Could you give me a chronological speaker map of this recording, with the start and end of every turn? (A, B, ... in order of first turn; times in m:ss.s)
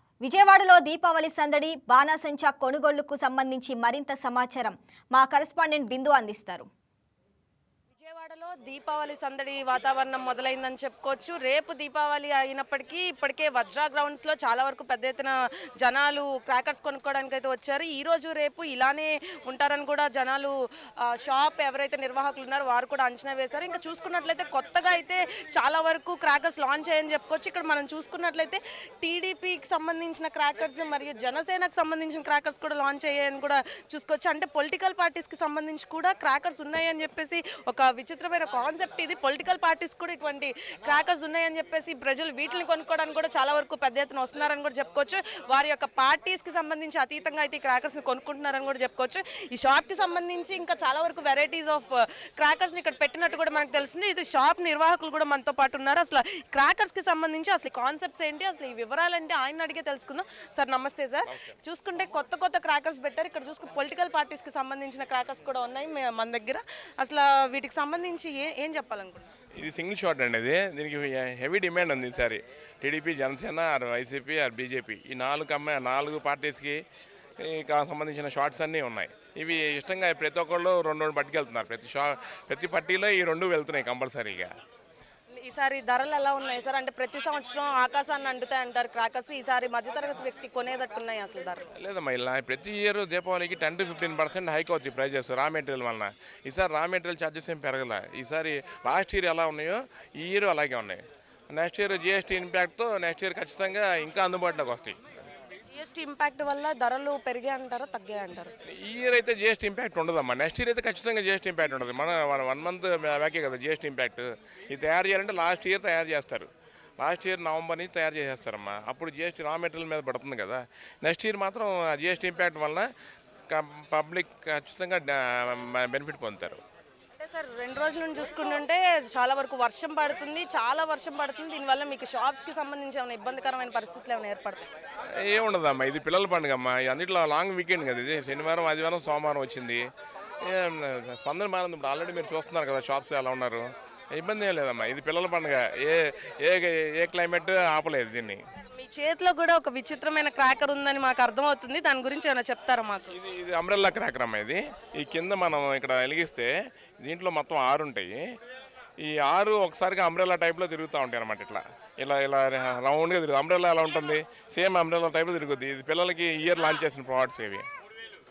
0:00.2-0:06.7 A
0:08.0-1:09.3 B
1:09.6-1:16.8 C
1:17.4-1:24.5 C
1:25.4-1:31.7 B
1:31.8-1:45.2 C
1:45.6-1:48.5 B
1:48.7-2:02.9 C
2:03.5-2:06.6 C
2:07.2-2:14.7 B
2:15.2-2:19.9 C
2:20.4-2:28.4 C
2:28.8-2:33.2 B
2:33.1-2:38.2 C
2:39.0-2:47.7 C